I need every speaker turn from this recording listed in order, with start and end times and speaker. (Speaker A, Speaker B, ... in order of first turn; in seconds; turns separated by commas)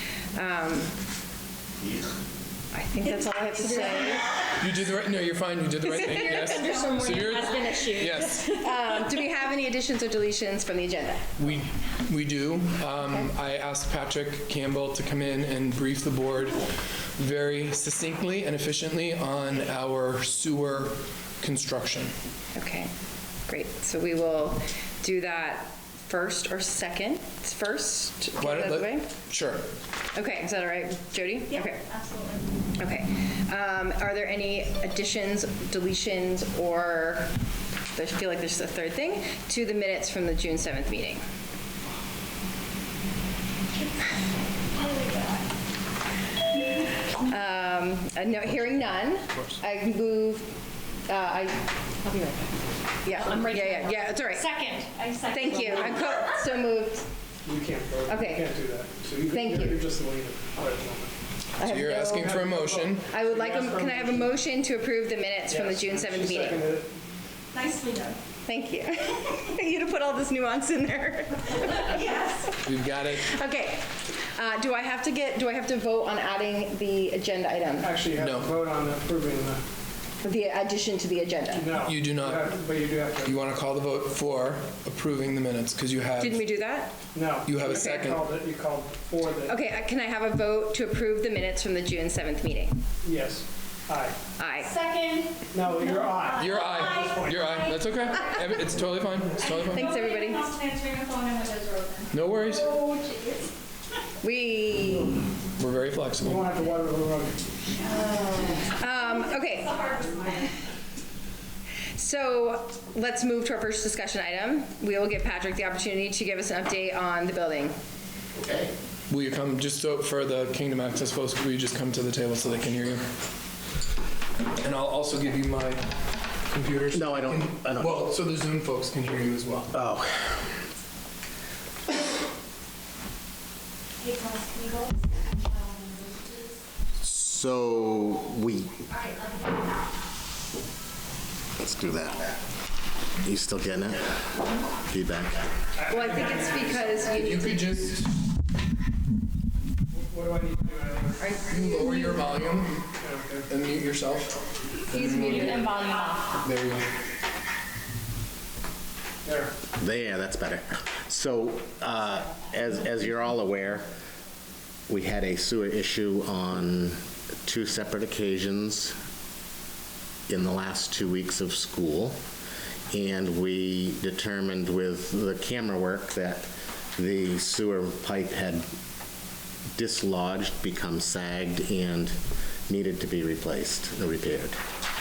Speaker A: 0.3-1.0, Speaker A: 2.7-4.3, Speaker B: 4.6-8.4, Speaker A: 5.8-11.3, Speaker B: 11.4-22.1, Speaker A: 22.5-22.9, Speaker A: 23.5-29.1, Speaker B: 28.4-29.6, Speaker A: 30.1-31.9, Speaker C: 31.6-32.4, Speaker A: 32.8-37.3, Speaker A: 37.9-41.2, Speaker C: 44.7-45.4, Speaker A: 47.2-50.5, Speaker A: 51.1-52.2, Speaker C: 52.0-52.4, Speaker A: 53.0-54.5, Speaker C: 53.3-53.8, Speaker C: 54.4-56.3, Speaker A: 55.2-57.0, Speaker D: 57.4-61.1, Speaker A: 58.1-58.5, Speaker A: 59.3-59.8, Speaker A: 61.6-62.5, Speaker B: 61.6-63.1, Speaker D: 62.0-64.3, Speaker A: 63.1-66.7, Speaker D: 65.5-67.0, Speaker C: 67.5-68.2, Speaker A: 68.5-72.4, Speaker C: 71.9-72.3, Speaker B: 72.6-73.3, Speaker A: 73.1-77.9, Speaker D: 77.8-79.6, Speaker B: 78.2-78.5, Speaker A: 80.2-81.7, Speaker D: 81.5-83.4, Speaker B: 81.8-82.5, Speaker B: 83.2-86.4, Speaker A: 86.2-87.0, Speaker D: 87.1-89.5, Speaker B: 87.4-88.3, Speaker A: 87.7-88.0, Speaker A: 89.5-92.8, Speaker D: 93.0-94.2, Speaker A: 94.4-94.8, Speaker C: 94.6-97.9, Speaker D: 95.5-97.5, Speaker B: 96.3-100.0, Speaker C: 99.4-103.5, Speaker A: 99.5-100.5, Speaker B: 102.1-102.8, Speaker A: 104.2-105.2, Speaker B: 105.6-106.5, Speaker D: 106.2-107.4, Speaker C: 107.8-108.4, Speaker A: 108.5-109.8, Speaker C: 109.4-110.5, Speaker A: 111.9-117.8, Speaker E: 118.3-118.7, Speaker B: 119.1-123.0, Speaker B: 124.6-125.9, Speaker B: 126.5-129.7, Speaker E: 126.9-128.0, Speaker E: 129.7-130.5, Speaker C: 134.0-136.4, Speaker E: 137.0-138.8, Speaker C: 139.0-139.3, Speaker E: 141.6-142.4, Speaker E: 143.2-144.2, Speaker E: 144.8-145.4, Speaker D: 145.8-146.8, Speaker A: 145.9-147.7, Speaker B: 146.5-148.1, Speaker D: 149.9-151.2, Speaker A: 151.2-152.2, Speaker B: 151.5-152.9, Speaker D: 153.0-153.5, Speaker B: 153.5-155.8, Speaker A: 154.9-155.9, Speaker C: 155.3-156.4, Speaker B: 156.4-156.9, Speaker D: 159.2-159.6, Speaker E: 159.7-163.9, Speaker E: 164.9-168.9, Speaker E: 170.3-172.2, Speaker E: 172.9-178.7, Speaker E: 179.7-182.2, Speaker E: 182.7-184.6